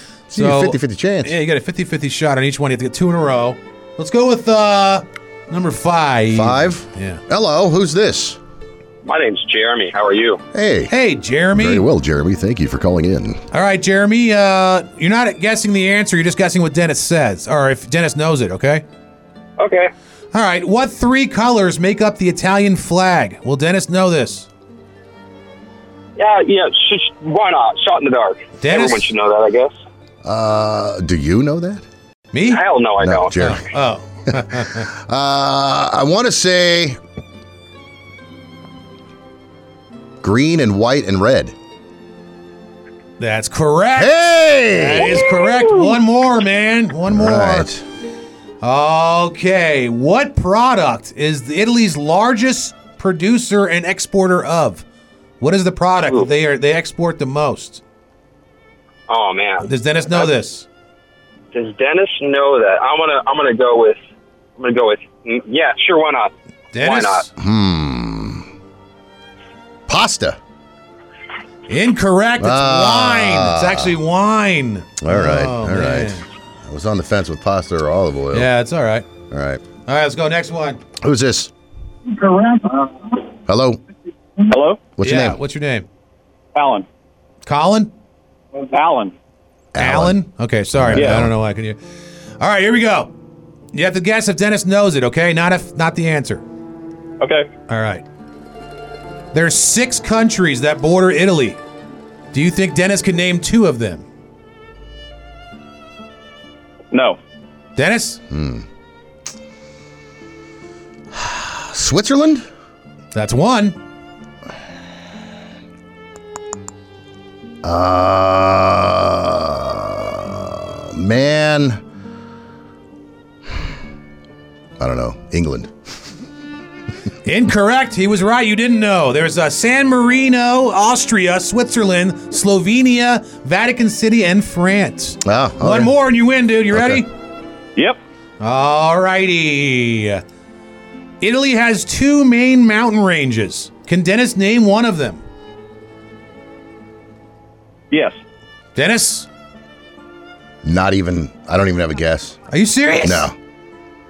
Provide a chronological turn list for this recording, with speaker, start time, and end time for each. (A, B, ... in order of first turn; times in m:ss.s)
0:00.3-0:01.4 A
0:00.3-0:07.2 B
0:06.3-0:08.4 A
0:09.0-0:10.4 C
0:10.5-0:10.9 A
0:10.9-0:11.8 B
0:11.5-0:13.4 A
0:13.5-0:18.8 B
0:19.6-0:19.9 C
0:20.3-0:24.5 B
0:26.2-0:29.7 C
0:28.6-0:29.1 B
0:30.2-0:31.8 A
0:32.3-0:32.7 B
0:32.5-0:33.6 C
0:33.0-0:33.6 A
0:33.4-0:34.9 B
0:34.3-0:37.0 A
0:40.2-0:41.5 A
0:43.2-0:47.7 B
0:44.0-0:45.3 A
0:47.1-0:47.8 A
0:48.6-0:54.8 B
0:55.4-0:57.8 B
0:59.1-1:00.3 C
0:59.6-1:00.7 B
1:01.5-1:04.0 C
1:04.6-1:07.2 C
1:06.7-1:07.3 B
1:07.4-1:08.5 A
1:09.9-1:10.4 A
1:11.7-1:16.2 B
1:12.4-1:13.9 A
1:15.0-1:18.5 A
1:18.3-1:19.1 B
1:19.3-1:19.6 A
1:19.9-1:20.8 B
1:21.0-1:21.5 A
1:23.4-1:23.8 A
1:24.4-1:24.9 D
1:25.0-1:25.4 A
1:25.0-1:25.9 B
1:26.5-1:26.9 D
1:27.4-1:27.9 B
1:28.7-1:29.1 D
1:29.7-1:30.2 A
1:29.8-1:31.8 B
1:30.7-1:31.3 A
1:30.9-1:31.3 D
1:32.4-1:33.1 B
1:33.7-1:36.4 B
1:37.2-1:37.5 D
1:37.7-1:38.0 B
1:39.3-1:41.6 B
1:42.3-1:44.0 B
1:46.9-1:47.2 D
1:47.8-1:48.2 B
1:48.3-1:48.6 A
1:51.2-1:52.4 A
1:53.1-1:53.8 B
1:57.6-2:01.8 A
2:04.8-2:05.7 A
2:07.2-2:17.1 B
2:15.2-2:15.9 A
2:16.7-2:17.0 A
2:18.4-2:20.2 B
2:21.2-2:25.2 B
2:27.9-2:28.2 D
2:28.8-2:29.3 B
2:30.6-2:32.4 A
2:32.5-2:33.3 B
2:33.0-2:33.4 A